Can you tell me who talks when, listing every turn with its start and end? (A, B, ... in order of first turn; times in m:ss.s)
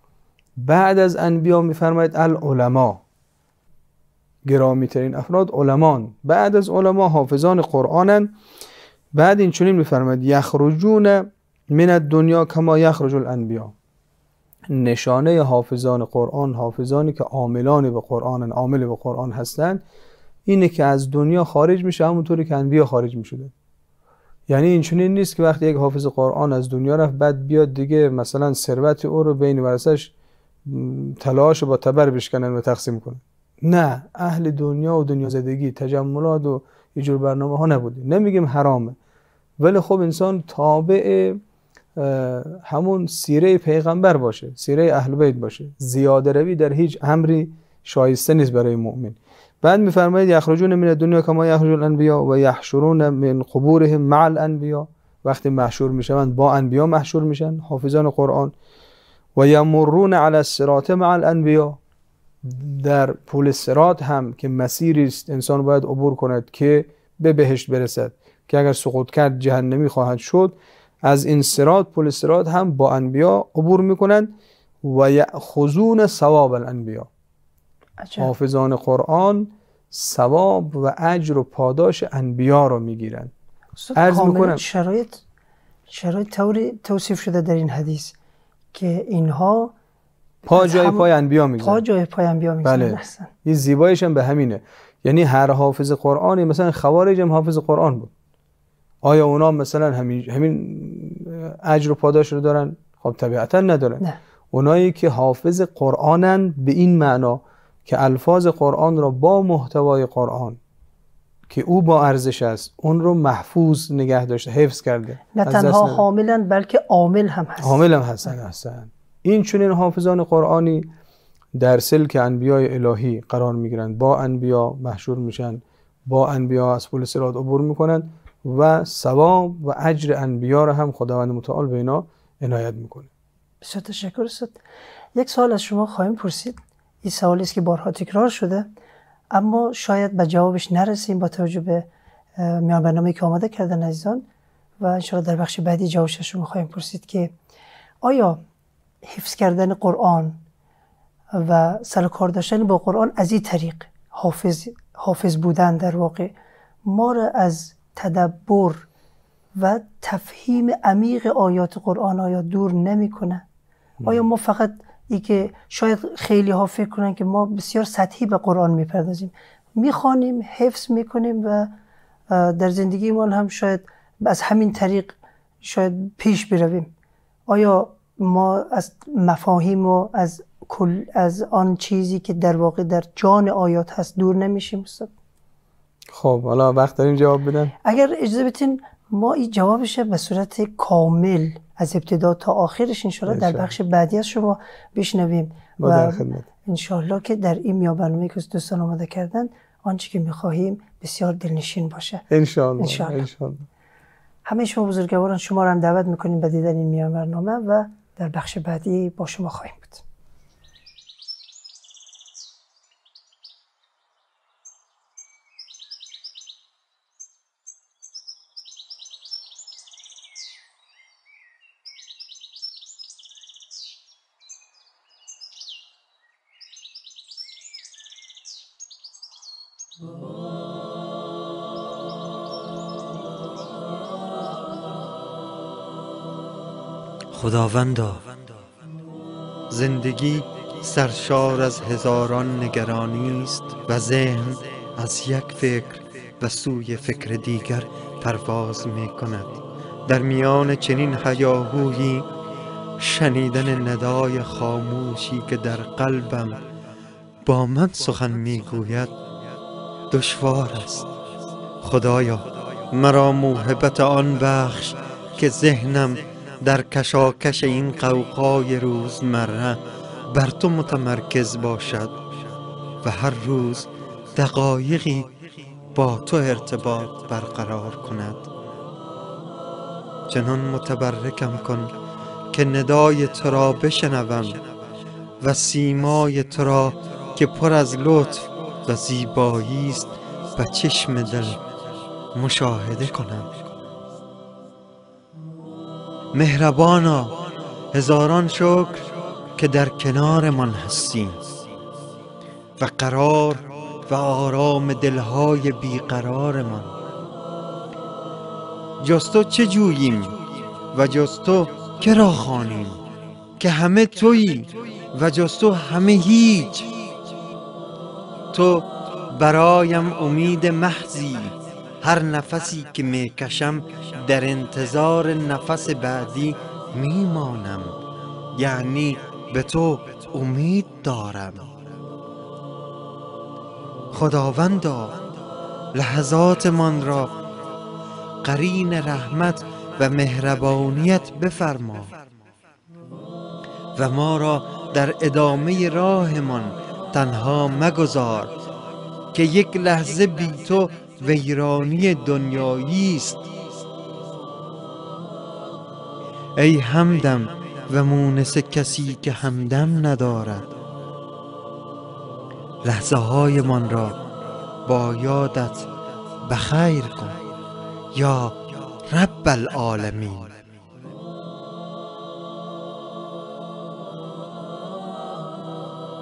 0:00.6-0:03.0 A
0:04.4-0:08.3 A
0:09.1-0:13.7 A
0:14.7-0:19.8 A
0:20.4-0:23.5 A
0:24.5-0:30.1 A
0:30.6-0:39.0 A
0:39.6-0:41.4 A
0:42.0-0:58.5 A
0:59.4-1:01.8 A
1:02.4-1:10.5 A
1:11.0-1:17.1 A
1:18.0-1:18.3 B
1:18.2-1:23.3 A
1:23.8-1:25.2 B
1:23.9-1:24.6 A
1:25.9-1:28.1 B
1:28.7-1:29.7 B
1:30.4-1:31.1 B
1:30.5-1:31.8 A
1:31.6-1:33.3 B
1:32.6-1:38.1 A
1:39.0-1:50.6 A
1:51.5-1:56.0 A
1:55.3-1:57.8 B
1:57.6-2:00.9 A
2:01.6-2:13.1 A
2:13.6-2:14.6 B
2:15.2-2:18.7 B
2:19.3-2:21.8 B
2:22.4-2:24.2 B
2:24.8-2:27.3 B
2:28.0-2:28.4 B
2:29.0-2:30.4 B
2:31.3-2:36.3 B
2:36.8-2:38.9 B
2:39.6-2:43.4 B
2:44.0-2:51.7 B
2:52.3-2:56.9 B
2:57.5-3:05.1 B
3:06.1-3:07.7 A
3:07.8-3:22.2 B
3:13.3-3:13.7 A
3:15.8-3:16.4 A
3:22.3-3:23.7 A
3:22.8-3:23.2 B
3:24.4-3:30.0 B
3:57.3-3:58.3 C
3:59.7-4:12.3 C
4:13.0-4:16.6 C
4:17.4-4:19.1 C
4:20.1-4:21.1 C
4:21.8-4:29.8 C
4:30.3-4:32.2 C
4:33.0-4:35.3 C
4:35.9-4:38.5 C
4:40.3-4:41.9 C
4:42.5-4:44.6 C
4:45.4-4:51.6 C
4:52.3-4:53.6 C
4:56.3-4:59.0 C
4:59.6-5:01.4 C
5:02.8-5:06.9 C
5:09.0-5:10.4 C
5:10.9-5:13.0 C
5:13.6-5:16.9 C
5:18.5-5:28.0 C
5:28.6-5:31.7 C
5:34.1-5:35.2 C
5:35.9-5:37.3 C
5:38.4-5:42.1 C
5:44.0-5:48.5 C
5:49.3-5:53.4 C
5:56.6-6:00.7 C
6:02.8-6:04.1 C
6:04.8-6:05.8 C
6:06.4-6:07.4 C
6:08.1-6:10.5 C